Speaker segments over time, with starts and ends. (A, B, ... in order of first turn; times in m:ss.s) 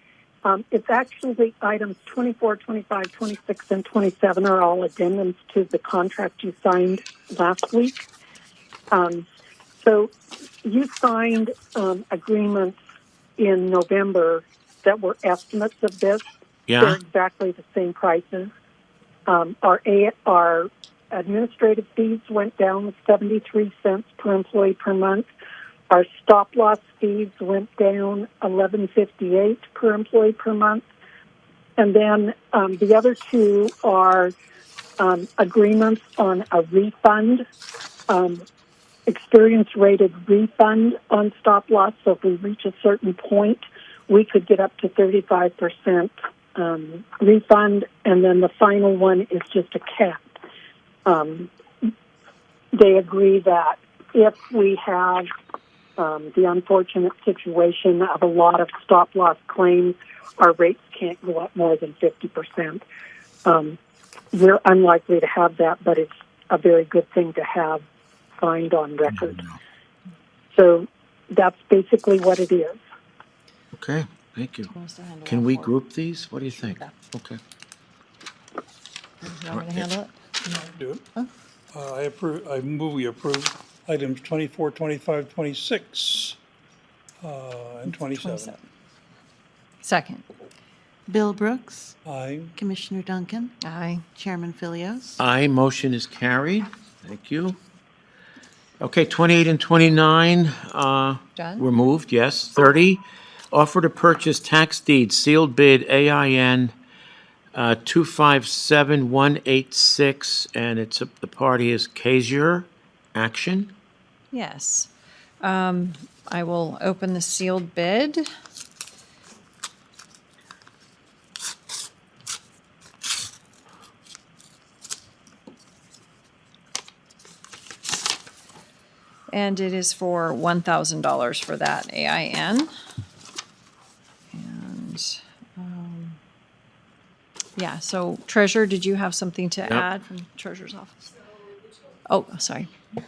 0:00.4-0:08.0 A
0:08.9-0:09.2 A
0:09.8-0:10.1 A
0:10.6-0:12.8 A
0:13.4-0:16.3 A
0:16.7-0:17.0 B
0:16.8-0:18.5 A
0:19.3-0:25.3 A
0:25.9-0:30.9 A
0:31.8-0:34.3 A
0:35.0-0:37.4 A
0:38.1-0:38.4 A
0:39.1-0:50.2 A
0:51.0-0:51.9 A
0:52.7-0:55.3 A
0:56.0-1:02.8 A
1:03.4-1:03.8 A
1:04.3-1:07.8 A
1:08.4-1:09.4 A
1:09.1-1:09.6 B
1:10.5-1:12.8 A
1:13.7-1:14.7 B
1:14.7-1:15.7 C
1:15.2-1:17.4 B
1:16.5-1:16.9 C
1:19.2-1:20.6 C
1:19.5-1:19.9 B
1:20.5-1:21.0 D
1:21.7-1:26.4 D
1:27.2-1:28.5 D
1:28.1-1:28.6 C
1:29.8-1:30.2 C
1:31.1-1:31.9 E
1:32.0-1:32.5 D
1:32.6-1:33.5 E
1:33.6-1:34.0 C
1:34.1-1:35.2 E
1:35.2-1:37.6 B
1:38.8-1:46.7 B
1:41.4-1:41.6 C
1:47.5-1:53.7 B
1:54.3-1:54.9 C
1:55.4-1:58.2 C
2:09.3-2:12.7 C
2:14.3-2:16.2 C
2:17.6-2:21.1 C
2:22.1-2:22.7 C